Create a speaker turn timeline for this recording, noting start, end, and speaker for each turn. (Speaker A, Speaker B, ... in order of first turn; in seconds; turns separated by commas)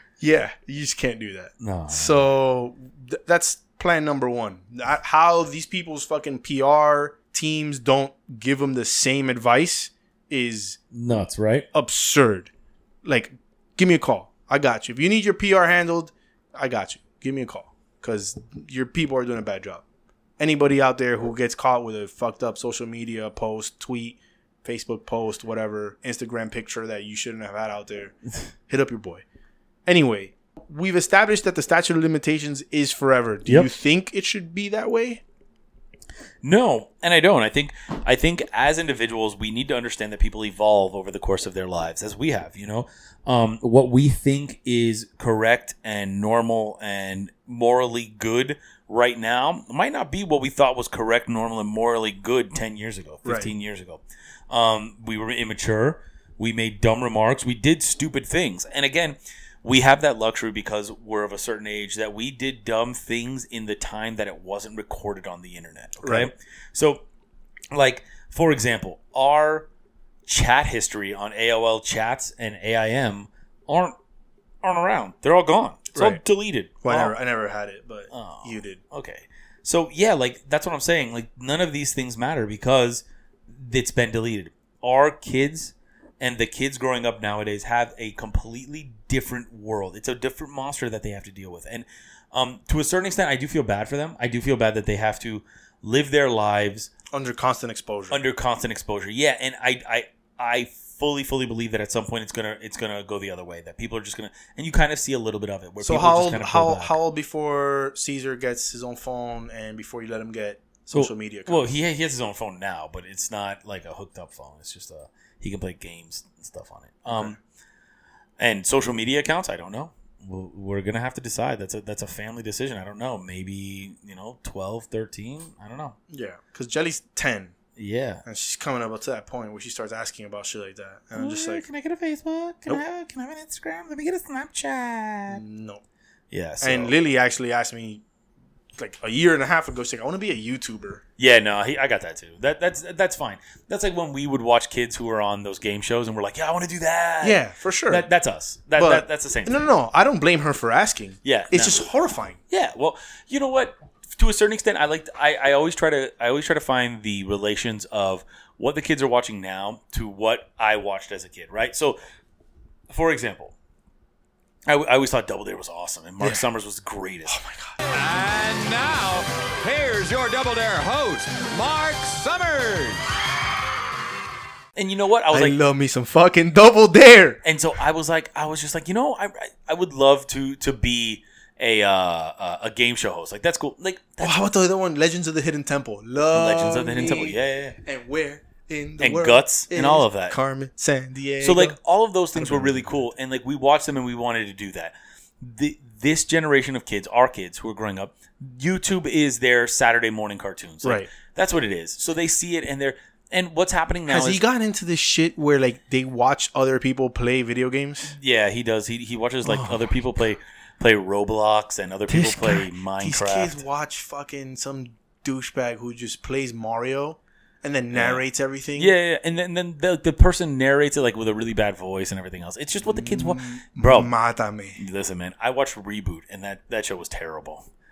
Speaker A: 0.2-10.8, Speaker B: 1.6-2.2, Speaker B: 10.9-11.7, Speaker A: 11.7-12.5, Speaker A: 13.0-19.8, Speaker A: 20.4-28.1, Speaker A: 28.7-29.2, Speaker A: 29.9-35.2, Speaker B: 36.4-67.0, Speaker A: 53.2-53.5, Speaker A: 66.0-66.3, Speaker B: 67.7-69.7, Speaker B: 70.3-74.0, Speaker B: 74.6-77.2, Speaker A: 75.9-76.2, Speaker A: 76.8-78.8, Speaker B: 78.1-96.9, Speaker A: 97.1-98.2, Speaker B: 98.1-107.0, Speaker A: 105.8-111.7, Speaker B: 110.9-117.4, Speaker B: 118.4-126.0, Speaker A: 126.1-127.5, Speaker B: 127.8-128.2, Speaker A: 128.2-131.6, Speaker B: 131.2-135.4, Speaker A: 135.3-135.8, Speaker B: 136.3-136.9, Speaker A: 136.6-138.0, Speaker A: 138.8-141.0, Speaker B: 141.2-149.6, Speaker A: 147.2-148.1, Speaker A: 148.8-152.4, Speaker B: 151.2-151.9, Speaker B: 152.5-162.0, Speaker B: 162.9-163.6, Speaker B: 164.7-167.4, Speaker A: 166.2-166.4, Speaker A: 167.3-167.8, Speaker C: 167.9-173.1, Speaker B: 174.8-175.6, Speaker A: 175.3-177.4, Speaker B: 177.4-184.4, Speaker A: 184.2-191.8, Speaker B: 186.3-187.8, Speaker B: 189.0-190.4, Speaker B: 191.4-204.4, Speaker A: 192.3-193.1, Speaker A: 200.8-201.1, Speaker A: 204.1-208.2, Speaker B: 208.1-213.6, Speaker A: 209.4-209.9, Speaker A: 212.1-218.9, Speaker B: 217.9-218.2, Speaker B: 218.8-224.1, Speaker A: 222.8-224.8, Speaker B: 224.8-227.7